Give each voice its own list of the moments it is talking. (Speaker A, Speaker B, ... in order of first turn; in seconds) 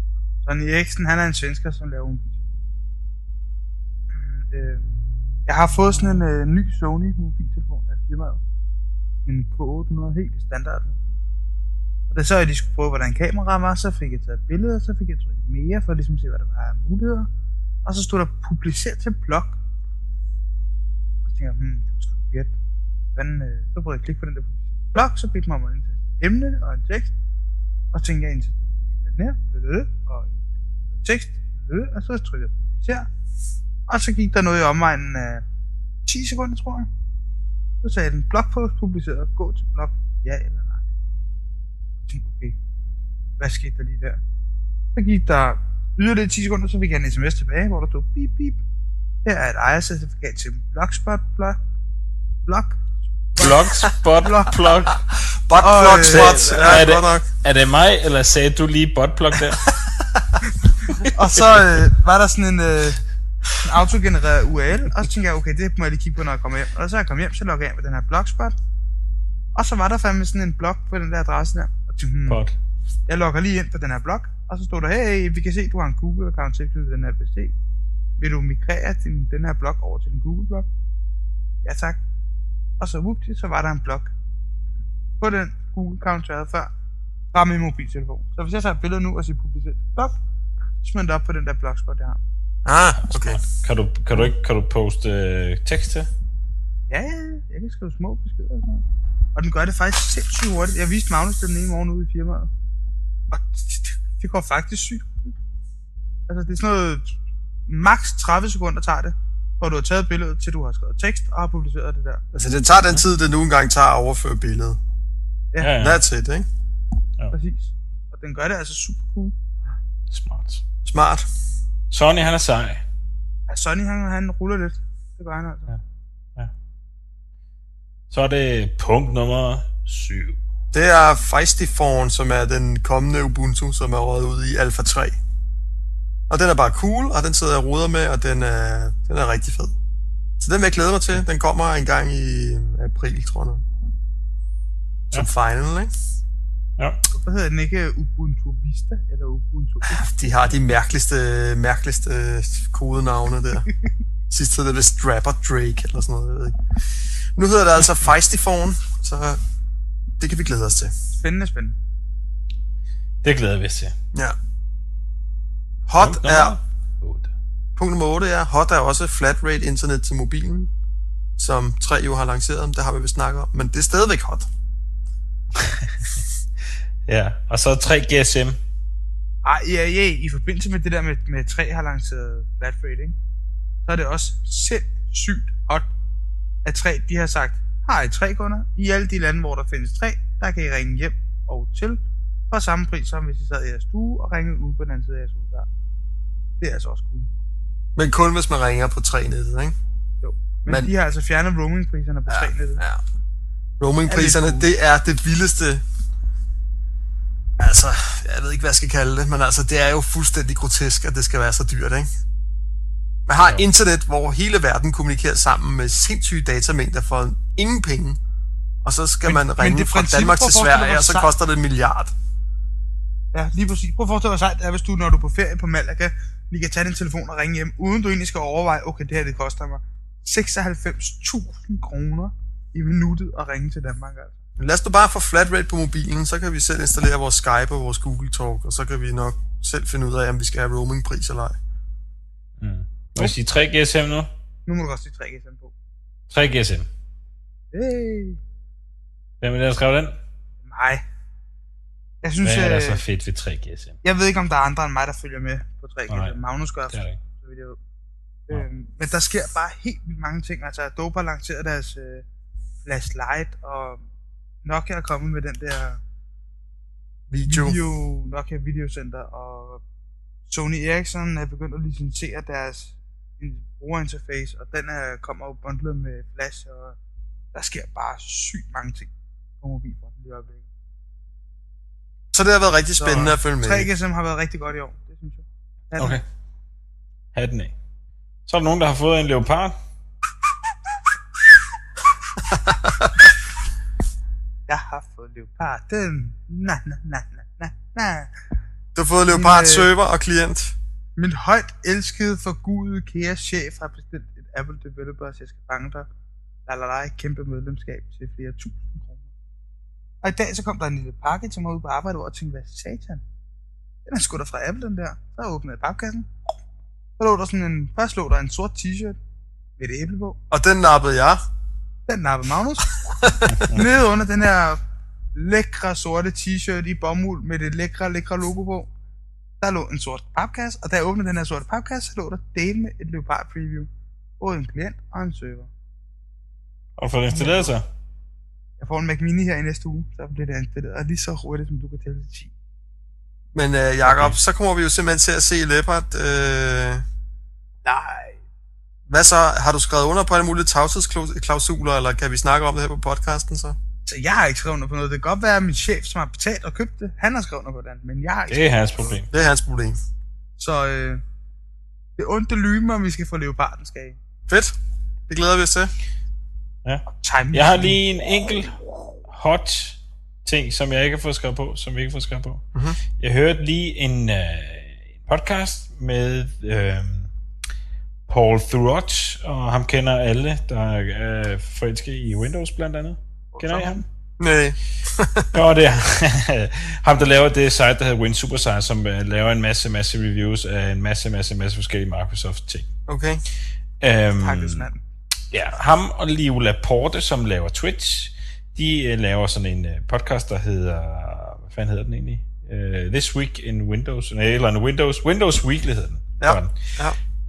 Speaker A: 0.4-2.5, 4.1-4.8, 5.5-8.4, 9.2-11.1, 12.1-17.3, 17.8-19.6, 21.2-22.5, 23.1-27.1, 27.9-30.4, 31.0-33.1, 33.9-35.4, 36.0-36.9, 37.8-40.8, 42.1-42.6, 43.4-44.2, 44.9-48.6, 49.2-51.6, 52.5-52.8, 53.4-54.6, 55.5-56.8, 61.1-63.0, 63.6-68.5, 69.5-72.4, 73.1-77.5, 78.2-80.7, 81.6-82.0, 82.8-84.1, 85.2-86.7, 87.3-90.2, 90.8-92.2, 96.9-102.5, 103.3-105.3, 106.3-112.2, 117.3-119.3, 123.5-125.7, 147.1-150.0, 161.2-161.8, 179.4-183.2, 183.8-185.9, 186.6-195.7, 196.6-197.3, 200.2-202.8, 204.1-204.6, 219.2-221.3, 223.3-234.3, 244.7-245.7, 247.7-248.4, 250.6-251.0, 252.2-253.0, 254.0-257.8, 258.5-262.2, 262.8-264.0, 264.6-266.0, 267.4-269.8, 270.5-277.0, 277.5-280.6, 283.0-286.2, 294.7-298.3, 299.3-299.9, 301.1-306.1, 306.7-309.3, 310.2-313.2, 314.1-316.3, 317.2-319.2, 319.8-320.4, 322.1-322.9, 323.7-324.8, 325.3-328.9, 329.6-333.9, 334.4-335.7, 337.3-337.7, 338.8-342.5, 347.8-348.4, 354.1-358.7, 360.6-361.2, 362.2-364.2, 367.1-368.0, 383.5-384.1, 394.4-395.0
Speaker B: 53.4-55.0, 55.9-59.7, 72.3-72.5, 93.0-96.1, 115.6-116.0, 120.1-120.6, 121.9-122.8, 128.1-130.4, 146.8-147.0, 163.2-163.9, 166.0-167.3, 175.6-176.1, 177.1-178.6, 242.6-244.3, 246.3-246.9, 249.4-250.2, 252.4-254.0, 256.1-256.4, 256.9-257.2, 287.3-287.7, 288.5-289.8, 337.0-337.8, 344.0-344.4, 358.5-359.3, 366.8-372.6, 373.2-377.3, 378.3-384.0, 385.5-392.9, 394.0-394.9, 395.5-406.9
Speaker C: 55.1-57.2, 59.7-60.4, 61.1-61.9, 92.6-93.4, 112.3-114.8, 115.8-116.5, 120.8-121.3, 130.7-135.2, 136.3-139.7, 140.4-143.6, 145.1-145.9, 149.9-153.7, 154.3-159.4, 160.2-160.9, 165.9-166.6, 167.8-170.7, 171.4-174.5, 197.9-199.8, 200.7-200.9, 202.3-203.0, 203.8-205.8, 207.6-212.1, 213.3-218.2, 218.8-222.1, 234.6-241.6, 267.3-267.8, 282.3-283.9, 292.5-293.2, 298.9-300.8, 320.5-321.4, 323.0-323.7, 343.5-347.0, 349.1-353.8, 359.1-360.0, 364.5-364.7, 365.3-365.9, 372.7-373.0, 384.4-385.6, 393.1-393.4, 406.4-407.2